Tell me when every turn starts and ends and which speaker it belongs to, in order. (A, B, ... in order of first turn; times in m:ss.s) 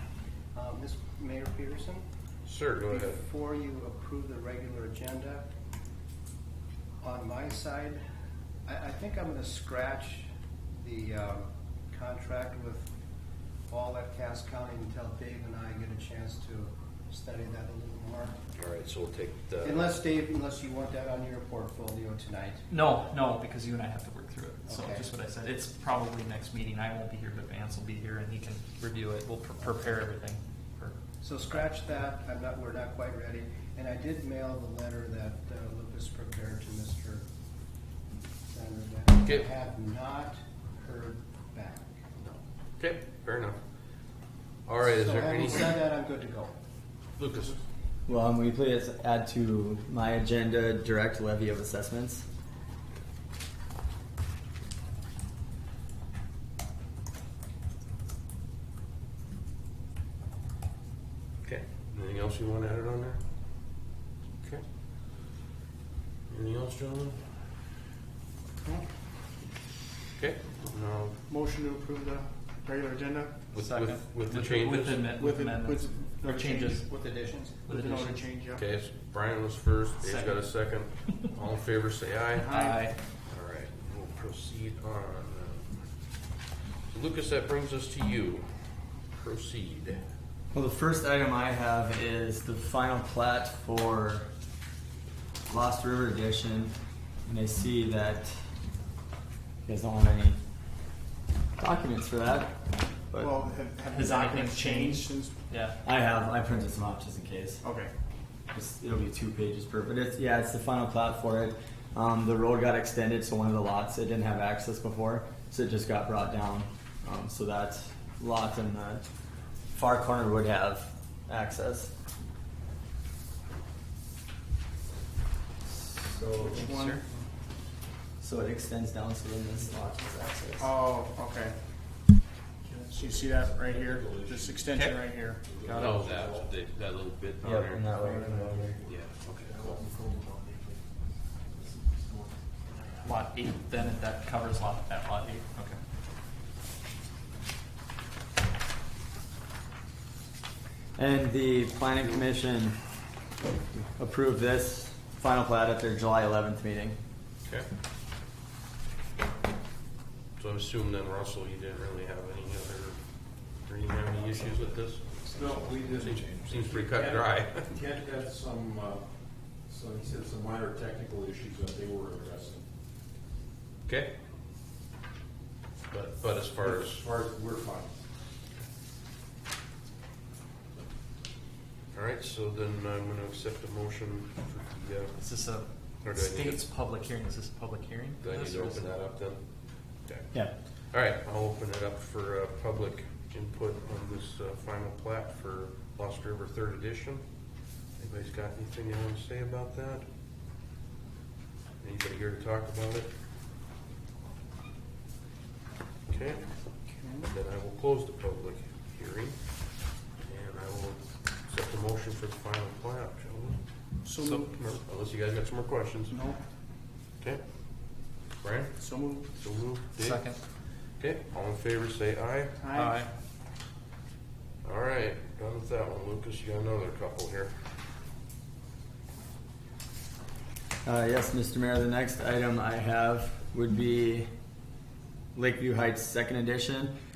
0:00.5-0:02.0 A
0:02.4-0:03.2 B
0:02.9-0:05.5 A
0:07.0-0:08.0 A
0:08.7-0:12.9 A
0:13.7-0:18.4 A
0:18.6-0:19.9 B
0:19.6-0:22.7 A
0:22.7-0:31.7 C
0:24.6-0:25.1 A
0:31.2-0:37.3 A
0:38.5-0:42.0 A
0:42.2-0:43.6 B
0:44.6-0:45.8 B
0:44.8-0:46.5 A
0:47.2-0:47.6 B
0:48.1-0:52.2 D
1:01.4-1:03.3 B
1:06.3-1:07.2 B
1:08.6-1:09.4 E
1:10.2-1:11.2 B
1:11.2-1:14.0 E
1:13.5-1:15.1 B
1:13.6-1:16.9 C
1:15.1-1:18.6 E
1:17.7-1:18.3 C
1:18.5-1:22.5 B
1:20.0-1:21.3 C
1:22.4-1:22.9 E
1:22.4-1:23.0 C
1:23.3-1:25.9 B
1:26.9-1:28.5 B
1:29.1-1:30.0 B
1:30.5-1:34.3 D
1:35.5-1:38.4 D
1:39.6-1:40.4 D
1:41.6-1:43.3 D
1:43.2-1:45.4 E
1:43.9-1:45.8 C
1:45.8-1:47.6 D
1:47.6-1:47.9 E
1:48.5-1:59.1 D
1:59.7-2:01.9 D
2:05.7-2:06.8 D
2:06.3-2:07.2 E
2:06.7-2:07.0 C
2:08.2-2:10.7 D
2:10.6-2:11.6 E
2:12.7-2:14.8 F
2:12.9-2:15.4 E
2:14.7-2:15.0 C
2:15.4-2:16.6 F
2:15.6-2:16.0 C
2:15.7-2:17.9 B
2:17.4-2:18.8 D
2:18.0-2:20.8 F
2:18.9-2:19.7 B
2:21.6-2:22.4 F
2:23.0-2:25.8 C
2:31.0-2:32.8 D
2:33.7-2:37.0 D
2:40.4-2:45.2 B
2:45.2-2:52.7 F
2:45.9-2:47.8 B
2:53.9-2:54.2 B
2:55.9-2:57.0 B
2:56.6-2:57.9 F
3:01.9-3:05.3 B
3:05.2-3:08.9 C
3:06.0-3:06.6 B
3:08.2-3:17.3 B
3:18.0-3:20.1 B
3:21.8-3:23.1 B
3:26.1-3:26.6 B
3:26.9-3:27.3 E
3:27.2-3:36.2 B
3:34.0-3:34.6 E
3:36.1-3:36.4 E
3:37.2-3:42.6 B
3:38.8-3:39.3 E
3:39.9-3:40.4 C
3:42.6-3:43.0 E
3:42.7-3:43.1 C
3:44.6-3:47.6 B
3:50.8-3:54.3 D
3:55.4-3:56.9 D